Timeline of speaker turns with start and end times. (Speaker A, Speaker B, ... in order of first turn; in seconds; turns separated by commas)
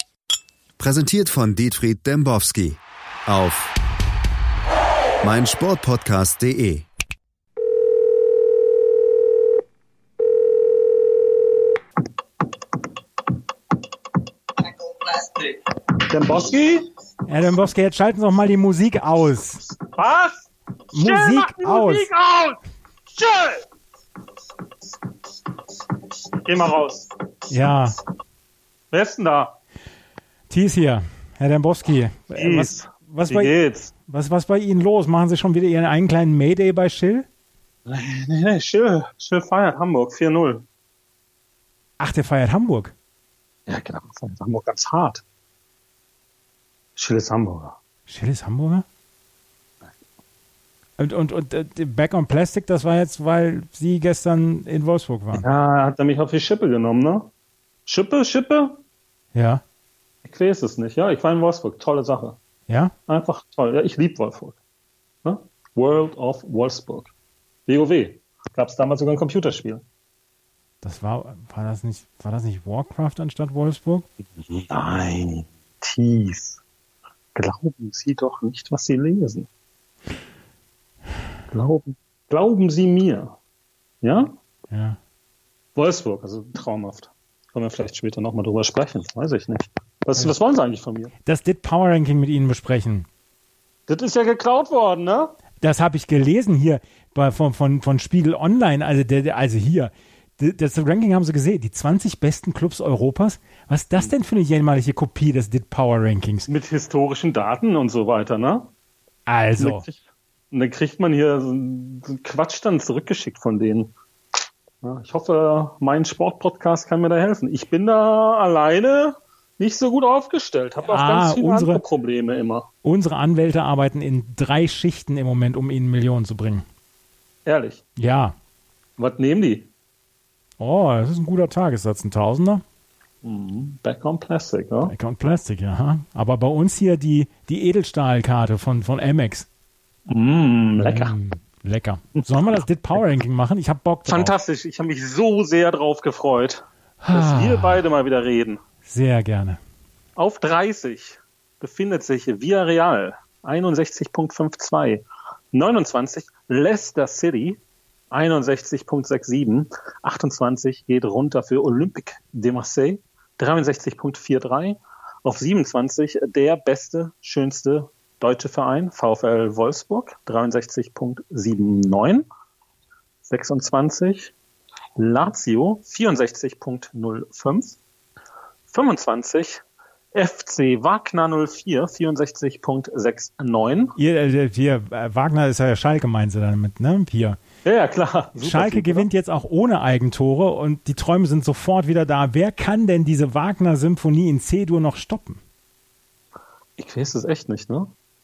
Speaker A: 0.8-3.7, Speaker A: 5.2-6.8, Speaker B: 15.0-16.8, Speaker C: 17.3-19.6, Speaker B: 19.9-22.6, Speaker C: 20.9-22.1, Speaker B: 23.1-23.6, Speaker B: 26.4-27.1, Speaker C: 27.5-28.0, Speaker B: 28.9-29.6, Speaker C: 30.5-37.2, Speaker B: 32.3-33.9, Speaker B: 37.9-40.6, Speaker C: 42.0-42.9, Speaker B: 43.7-45.2, Speaker B: 47.0-47.8, Speaker C: 48.1-48.8, Speaker C: 51.0-55.5, Speaker B: 55.3-57.3, Speaker B: 57.9-58.8, Speaker C: 59.3-59.6, Speaker B: 60.2-62.4, Speaker C: 62.7-62.9, Speaker B: 63.1-64.6, Speaker B: 65.2-67.1, Speaker B: 67.7-69.8, Speaker C: 70.8-74.0, Speaker B: 74.7-76.6, Speaker B: 77.3-79.5, Speaker B: 81.5-83.4, Speaker B: 84.0-84.3, Speaker C: 84.7-85.0, Speaker B: 85.8-91.1, Speaker C: 91.2-93.1, Speaker B: 93.9-95.4, Speaker C: 95.6-106.5, Speaker B: 106.5-108.7, Speaker C: 109.3-109.8, Speaker B: 109.6-113.9, Speaker B: 114.8-122.7, Speaker C: 120.8-121.8, Speaker C: 122.8-126.7, Speaker B: 127.5-127.8, Speaker C: 128.0-128.3, Speaker B: 129.0-129.7, Speaker C: 130.6-132.6, Speaker B: 133.2-134.9, Speaker C: 134.8-139.5, Speaker B: 140.1-141.2, Speaker C: 140.8-144.3, Speaker B: 142.2-142.6, Speaker B: 144.1-148.6, Speaker C: 147.0-147.8, Speaker C: 148.8-149.6, Speaker B: 150.2-157.6, Speaker B: 158.1-172.2, Speaker B: 173.3-174.3, Speaker B: 175.0-177.8, Speaker B: 178.7-179.6, Speaker B: 180.1-184.0, Speaker C: 184.0-187.4, Speaker B: 187.7-189.1, Speaker C: 188.4-195.4, Speaker B: 196.8-197.9